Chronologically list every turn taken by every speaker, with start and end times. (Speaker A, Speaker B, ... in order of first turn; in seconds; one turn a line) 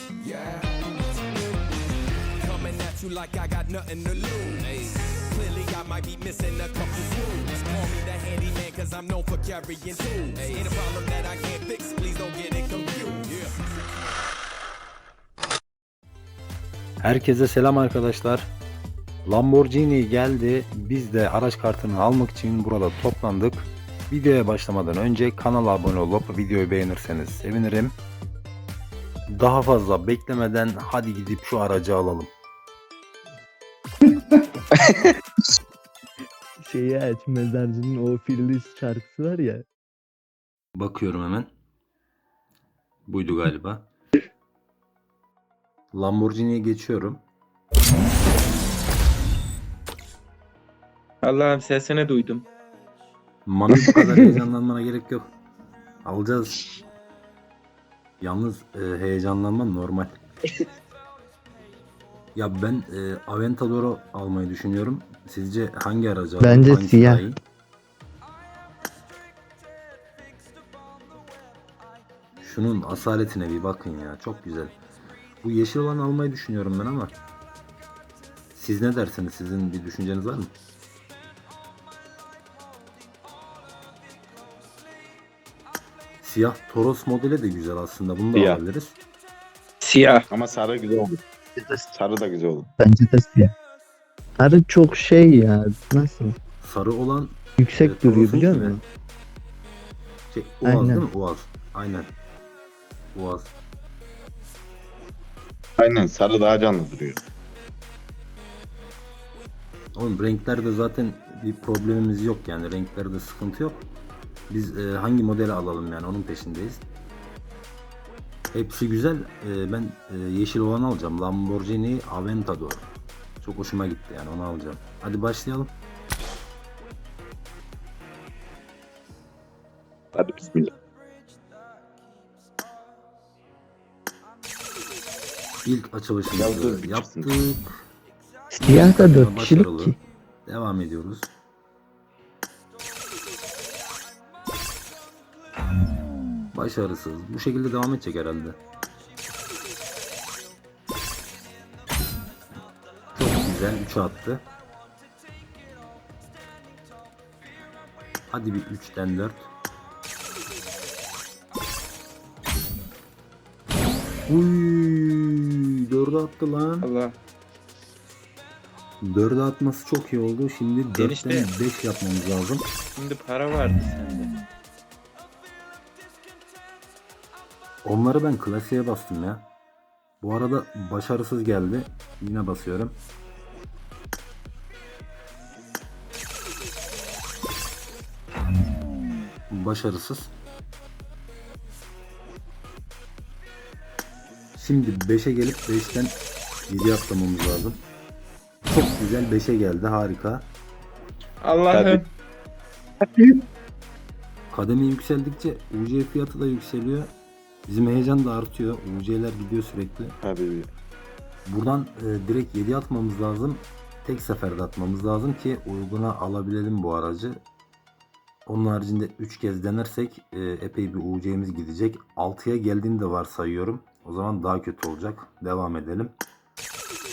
Speaker A: 0.2-0.7
Speaker A: 2.4-13.5
Speaker B: 17.0-18.5
Speaker B: 19.2-28.0
Speaker B: 29.3-32.3
Speaker C: 36.6-39.6
Speaker B: 40.7-41.5
Speaker B: 43.1-43.9
Speaker B: 45.9-47.2
Speaker D: 51.2-52.5
Speaker B: 53.5-55.3
Speaker B: 56.0-56.6
Speaker B: 58.2-60.2
Speaker B: 62.3-67.4
Speaker C: 66.4-67.2
Speaker B: 72.4-74.8
Speaker B: 75.4-77.2
Speaker B: 78.5-80.5
Speaker B: 86.2-89.0
Speaker E: 88.3-88.6
Speaker D: 89.8-90.2
Speaker E: 90.3-91.2
Speaker C: 91.6-91.9
Speaker E: 91.9-92.7
Speaker C: 92.8-93.5
Speaker C: 94.4-96.4
Speaker B: 96.6-98.8
Speaker C: 97.6-98.8
Speaker B: 100.3-102.1
Speaker C: 100.6-101.0
Speaker B: 103.1-103.5
Speaker E: 105.8-107.2
Speaker B: 110.0-113.8
Speaker B: 114.5-116.8
Speaker B: 118.5-122.9
Speaker B: 123.4-125.7
Speaker E: 130.1-130.7
Speaker B: 135.6-137.8
Speaker E: 136.4-137.3
Speaker C: 138.5-140.0
Speaker B: 138.6-141.3
Speaker B: 146.5-148.6
Speaker B: 153.1-154.4
Speaker B: 158.3-159.5
Speaker B: 164.3-166.9
Speaker D: 166.8-167.2
Speaker B: 169.0-172.7
Speaker D: 170.9-171.5
Speaker D: 172.9-174.3
Speaker B: 177.8-179.5
Speaker B: 180.2-183.0
Speaker B: 189.5-190.3
Speaker B: 194.6-196.2
Speaker B: 196.7-197.8
Speaker B: 198.7-200.5
Speaker D: 201.4-202.0
Speaker E: 201.7-202.0
Speaker B: 204.5-207.1
Speaker B: 207.7-210.2
Speaker E: 210.2-210.7
Speaker B: 211.4-217.4
Speaker B: 218.4-226.1